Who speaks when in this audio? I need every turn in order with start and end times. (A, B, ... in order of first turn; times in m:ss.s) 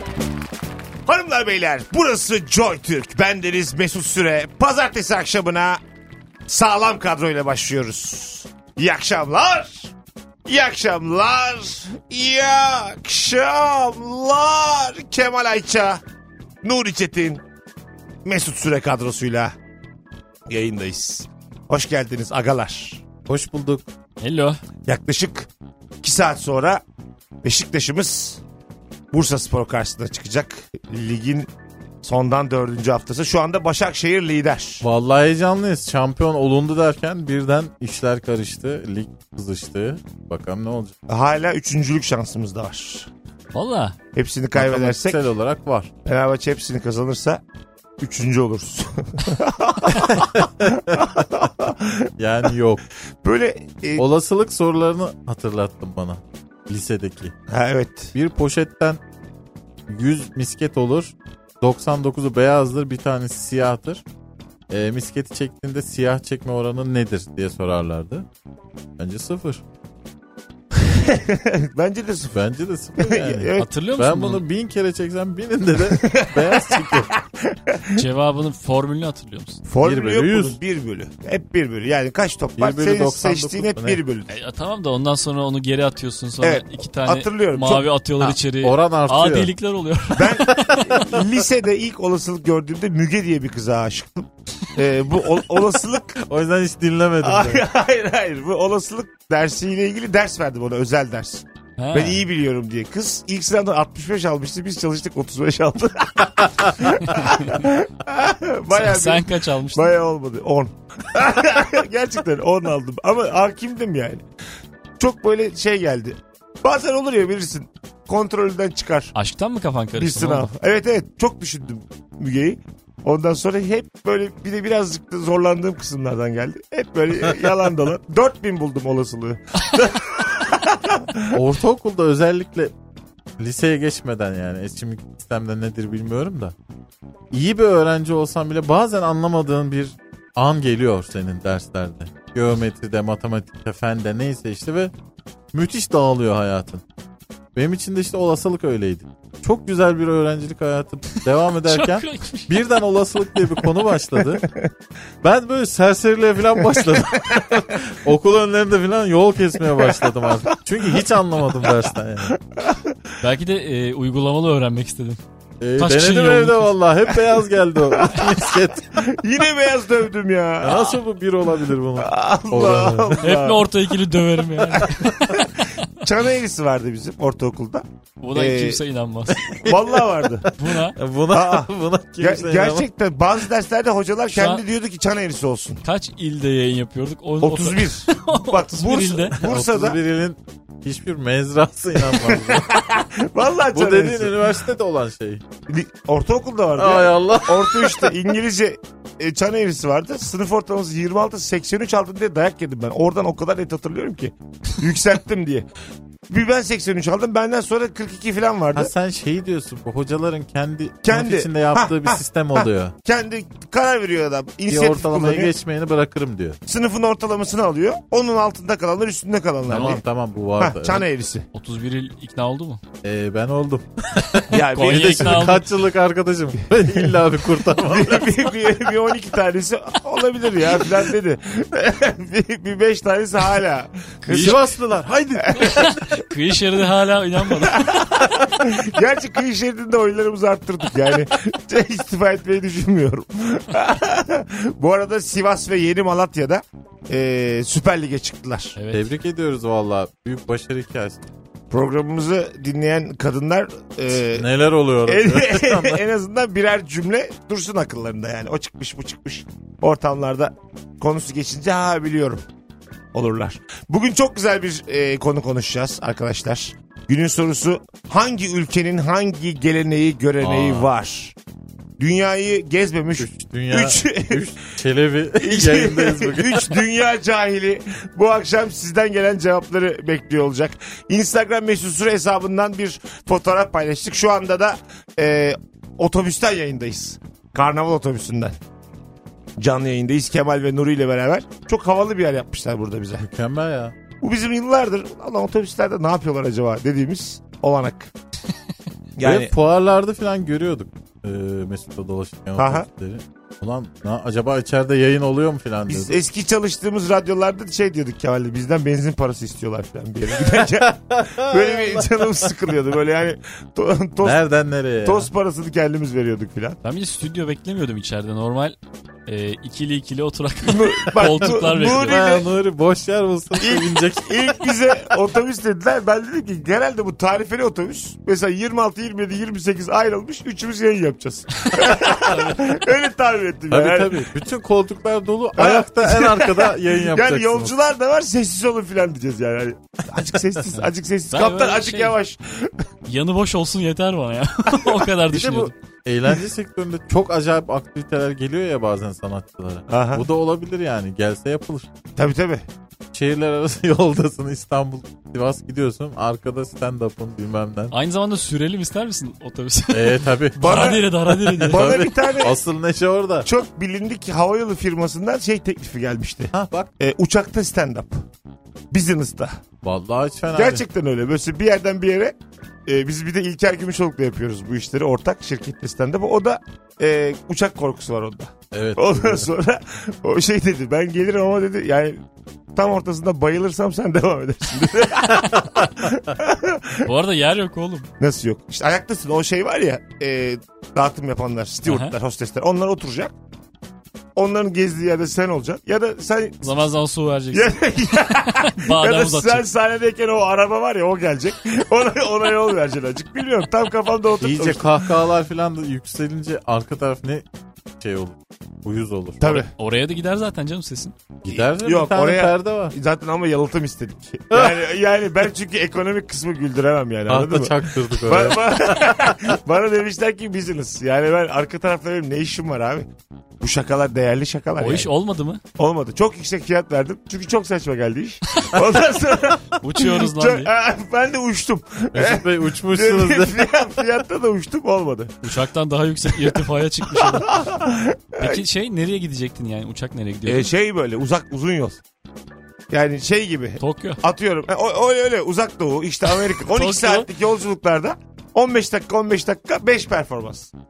0:01.0-0:05.8 A
0:06.5-0:09.9 A
0:10.4-0:16.0 A
0:16.6-0:17.4 A
0:18.2-0:19.5 A
0:20.5-0:23.0 A
0:23.3-0:23.8 B
0:24.2-0:24.6 C
0:24.9-0:25.5 A
0:26.0-0:26.8 A
0:27.4-0:28.4 A
0:29.1-0:31.5 A
0:32.0-0:34.8 A
0:34.8-0:40.9 B
0:41.1-0:43.1 A
0:43.5-0:44.0 C
0:44.1-0:45.2 A
0:44.5-0:45.9 B
0:46.0-0:47.4 A
0:48.0-0:52.1 A
0:50.1-0:51.2 B
0:52.2-0:52.8 B
0:53.2-0:54.0 A
0:54.0-0:57.3 B
0:57.5-0:58.1 A
0:58.1-0:59.0 B
0:59.9-1:04.0 B
1:04.7-1:08.3 B
1:09.0-1:09.6 B
1:10.7-1:12.4 A
1:12.3-1:17.1 B
1:13.0-1:13.7 A
1:13.6-1:14.4 C
1:15.9-1:18.0 A
1:17.9-1:19.6 C
1:19.6-1:24.3 A
1:19.8-1:20.6 B
1:22.6-1:24.0 B
1:24.3-1:31.1 C
1:26.4-1:27.9 A
1:28.2-1:29.5 B
1:30.2-1:36.2 A
1:30.6-1:30.8 B
1:36.2-1:37.6 B
1:37.2-1:54.2 A
1:41.8-1:42.2 C
1:47.1-1:47.5 C
1:48.7-1:49.9 C
1:55.0-1:59.1 A
1:59.1-2:00.5 C
2:00.0-2:11.4 A
2:11.3-2:12.7 B
2:13.4-2:16.5 B
2:17.3-2:24.9 B
2:25.5-2:26.8 B
2:27.5-2:34.5 B
2:31.6-2:32.6 C
2:35.2-2:42.4 B
2:39.7-2:41.0 A
2:42.3-2:42.9 A
2:43.2-2:45.2 C
2:45.6-2:48.9 B
2:45.8-2:46.7 C
2:47.9-2:51.0 A
2:50.6-2:53.3 B
2:52.0-2:53.7 A
2:53.2-2:55.8 C
2:54.7-2:58.8 A
2:58.2-2:59.4 C
2:59.3-3:02.9 B
2:59.6-3:00.5 A
3:00.6-3:01.0 C
3:01.3-3:05.8 A
3:04.3-3:04.6 C
3:05.8-3:09.4 C
3:07.4-3:10.0 A
3:09.4-3:12.8 B
3:12.0-3:14.5 A
3:13.7-3:15.4 B
3:15.7-3:25.7 A
3:16.8-3:18.2 B
3:26.3-3:28.9 A
3:28.7-3:32.9 B
3:31.0-3:35.5 A
3:34.7-3:36.6 B
3:36.7-3:40.0 A
3:39.7-3:41.0 B
3:39.7-3:40.0 C
3:40.6-3:41.4 A
3:41.5-3:42.8 C
3:43.0-3:48.5 B
3:44.5-3:45.6 A
3:44.7-3:45.6 C
3:46.9-3:54.6 A
3:54.2-3:54.6 C
3:54.3-3:55.8 B
3:55.4-3:55.9 A
3:55.5-3:58.1 C
3:57.7-4:08.8 A
4:08.8-4:09.1 C
4:08.9-4:11.2 B
4:11.7-4:14.5 A
4:14.3-4:16.0 B
4:15.0-4:22.4 A
4:23.1-4:31.3 A
4:30.4-4:30.9 B
4:32.0-4:34.5 A
4:33.2-4:36.8 B
4:35.4-4:48.6 A
4:49.6-4:53.3 A
4:53.2-4:54.0 B
4:54.2-4:58.1 A
4:59.2-4:59.5 A
4:59.2-5:06.2 B
5:02.6-5:02.9 A
5:05.9-5:14.4 A
5:10.3-5:12.5 B
5:14.2-5:15.3 B
5:15.0-5:16.8 A
5:16.8-5:22.2 C
5:20.6-5:22.5 A
5:21.4-5:25.1 B
5:23.6-5:34.2 A
5:31.6-5:32.8 C
5:33.7-5:37.7 B
5:35.6-5:42.7 A
5:40.6-5:40.8 B
5:41.3-5:42.2 C
5:43.1-5:45.7 C
5:45.3-5:51.9 B
5:49.9-5:50.2 A
5:52.2-5:52.6 A
5:53.1-5:57.9 B
5:57.9-6:01.9 C
5:59.9-6:03.5 B
6:00.6-6:01.1 A
6:01.6-6:02.6 A
6:03.4-6:08.2 A
6:06.5-6:06.9 B
6:08.9-6:09.6 A
6:09.8-6:10.8 B
6:10.6-6:12.3 A
6:12.9-6:22.2 A
6:18.7-6:19.5 B
6:22.7-6:27.1 A
6:27.0-6:28.1 C
6:28.2-6:33.3 A
6:31.8-6:32.1 C
6:34.4-6:36.8 A
6:36.6-6:39.6 C
6:37.5-6:45.2 A
6:44.4-6:47.4 B
6:48.0-6:49.7 B
6:49.4-6:49.7 A
6:49.8-6:51.2 C
6:51.4-6:52.9 B
6:51.4-7:03.1 A
6:54.5-6:54.8 B
6:57.3-6:59.6 B
7:03.6-7:05.1 A
7:04.8-7:05.6 C
7:05.8-7:15.5 A
7:08.5-7:08.8 C
7:09.8-7:10.7 C
7:12.1-7:13.7 B
7:15.4-7:17.5 C
7:17.1-7:18.6 A
7:18.4-7:20.7 C
7:20.4-7:22.0 A
7:22.9-7:30.7 A
7:23.8-7:24.2 C
7:26.5-7:27.3 C